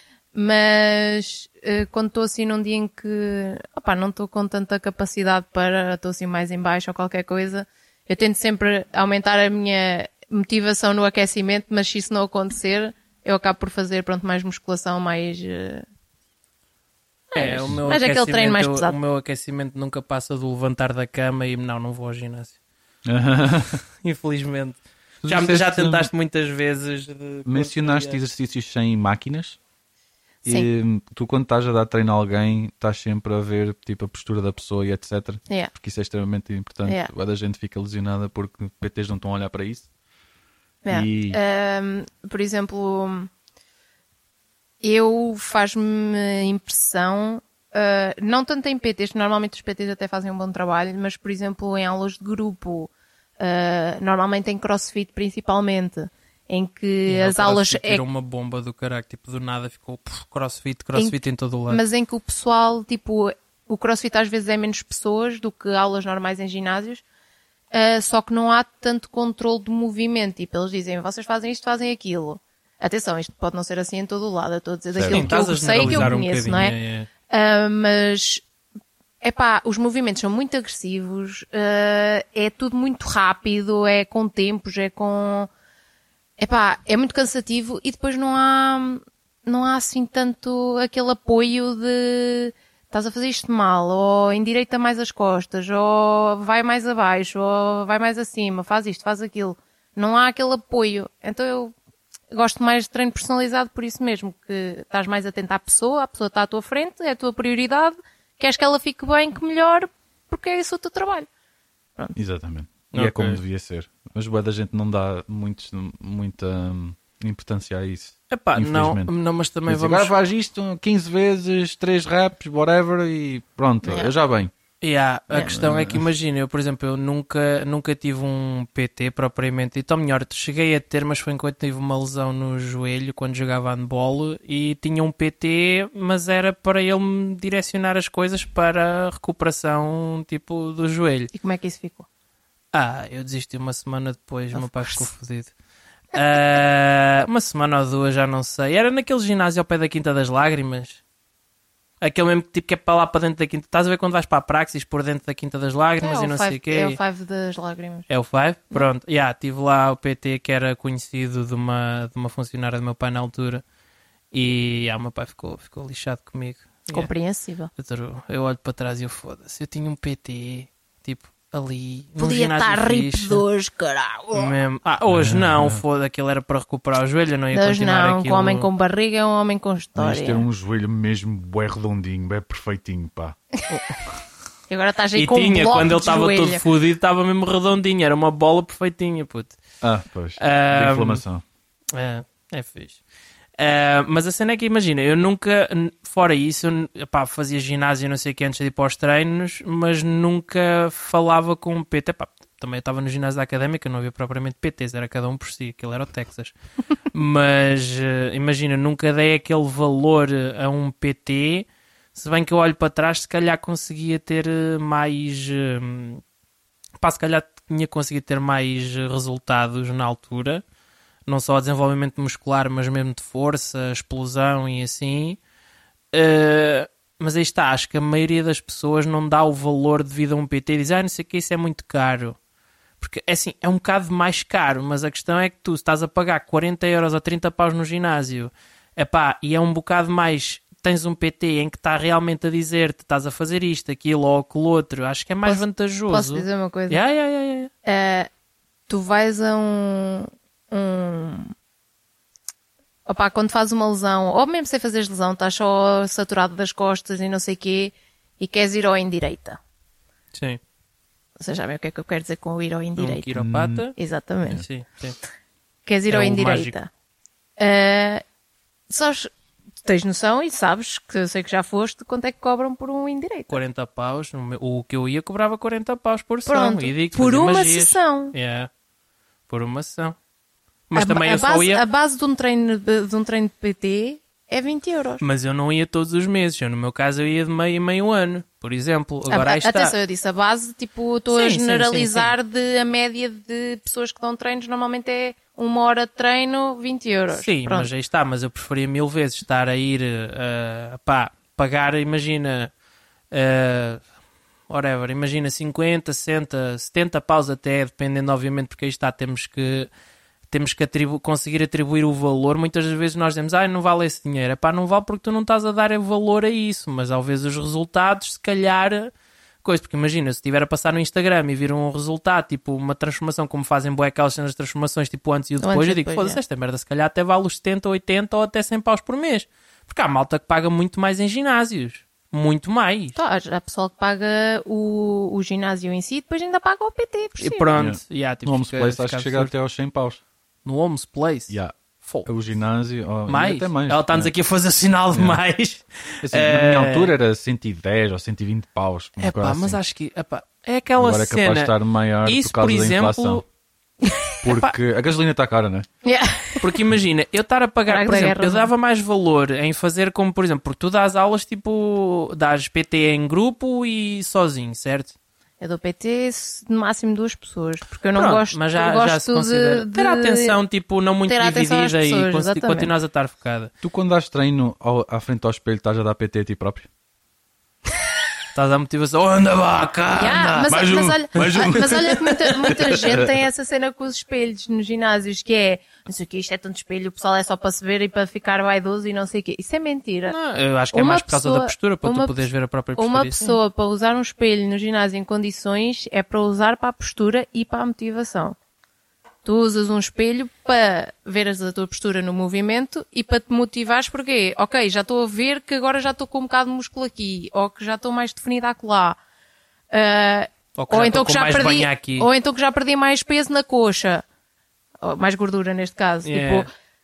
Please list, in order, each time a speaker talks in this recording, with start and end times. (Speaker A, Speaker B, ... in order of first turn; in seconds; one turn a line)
Speaker A: 0.3-15.8
Speaker A: 17.3-19.0
Speaker B: 17.4-22.6
Speaker C: 23.1-23.8
Speaker B: 24.0-28.2
Speaker C: 25.2-26.1
Speaker C: 27.5-29.6
Speaker C: 30.4-39.9
Speaker A: 36.9-37.1
Speaker A: 40.9-43.3
Speaker C: 40.9-41.4
Speaker A: 44.8-58.0
Speaker B: 57.1-61.8
Speaker A: 61.7-67.0
Speaker A: 67.7-76.8
Speaker C: 74.9-75.3
Speaker B: 75.1-77.1
Speaker C: 75.8-76.1
Speaker A: 77.3-78.4
Speaker A: 79.2-85.5
Speaker A: 86.4-101.7
Speaker A: 102.3-111.3
Speaker C: 112.2-119.1
Speaker B: 112.9-113.4
Speaker B: 118.3-120.1
Speaker C: 119.7-124.5
Speaker A: 123.8-124.1
Speaker B: 124.8-141.3
Speaker A: 125.3-125.6
Speaker C: 125.5-126.0
Speaker A: 141.3-142.1
Speaker B: 142.7-145.5
Speaker A: 144.5-145.1
Speaker B: 146.1-151.0
Speaker B: 152.0-157.0
Speaker A: 156.0-158.1
Speaker B: 158.1-163.6
Speaker B: 164.3-167.1
Speaker A: 166.9-167.7
Speaker B: 167.8-173.4
Speaker A: 172.2-174.6
Speaker B: 174.3-178.7
Speaker C: 175.1-175.8
Speaker A: 177.5-180.5
Speaker C: 180.0-183.4
Speaker A: 184.7-186.6
Speaker B: 185.2-189.6
Speaker C: 189.8-191.4
Speaker B: 190.4-191.2
Speaker B: 191.9-193.0
Speaker B: 193.6-206.5
Speaker B: 207.1-216.2
Speaker B: 217.0-220.6
Speaker B: 221.3-225.4
Speaker B: 226.1-232.4
Speaker B: 233.0-247.7
Speaker A: 245.4-247.0
Speaker A: 247.8-248.3
Speaker A: 248.9-251.5
Speaker A: 253.1-259.6
Speaker B: 260.3-260.6
Speaker A: 261.4-263.3
Speaker B: 263.0-264.0
Speaker C: 263.4-263.8
Speaker A: 264.0-264.6
Speaker B: 264.5-265.2
Speaker A: 265.9-266.9
Speaker B: 266.1-266.8
Speaker A: 267.6-268.2
Speaker A: 268.9-269.3
Speaker A: 269.8-273.6
Speaker B: 273.5-278.7
Speaker A: 276.5-278.4
Speaker B: 279.5-280.2
Speaker B: 280.9-281.8
Speaker A: 280.9-285.2
Speaker B: 285.2-289.9
Speaker A: 289.3-297.9
Speaker B: 291.3-292.3
Speaker B: 297.3-302.7
Speaker B: 303.3-304.0
Speaker B: 304.7-309.9
Speaker B: 310.5-319.1
Speaker B: 319.6-333.2
Speaker A: 325.6-326.4
Speaker A: 333.1-337.7
Speaker B: 337.4-339.5
Speaker C: 337.8-340.2
Speaker B: 340.6-342.3
Speaker C: 341.5-344.3
Speaker B: 343.3-347.1
Speaker C: 345.1-345.4
Speaker C: 346.2-349.8
Speaker B: 349.2-353.4
Speaker C: 351.0-353.4
Speaker C: 354.4-355.9
Speaker A: 356.0-356.8
Speaker B: 356.6-365.1
Speaker A: 357.9-358.7
Speaker A: 365.6-370.6
Speaker B: 368.1-373.7
Speaker A: 371.3-372.9
Speaker C: 373.8-376.9
Speaker B: 378.5-382.7
Speaker A: 380.2-390.4
Speaker C: 380.7-383.4
Speaker B: 390.3-393.6
Speaker A: 390.9-392.4
Speaker A: 393.0-398.6
Speaker A: 399.4-409.2
Speaker A: 409.9-414.2
Speaker B: 410.8-412.3
Speaker A: 415.0-416.7
Speaker B: 416.2-416.7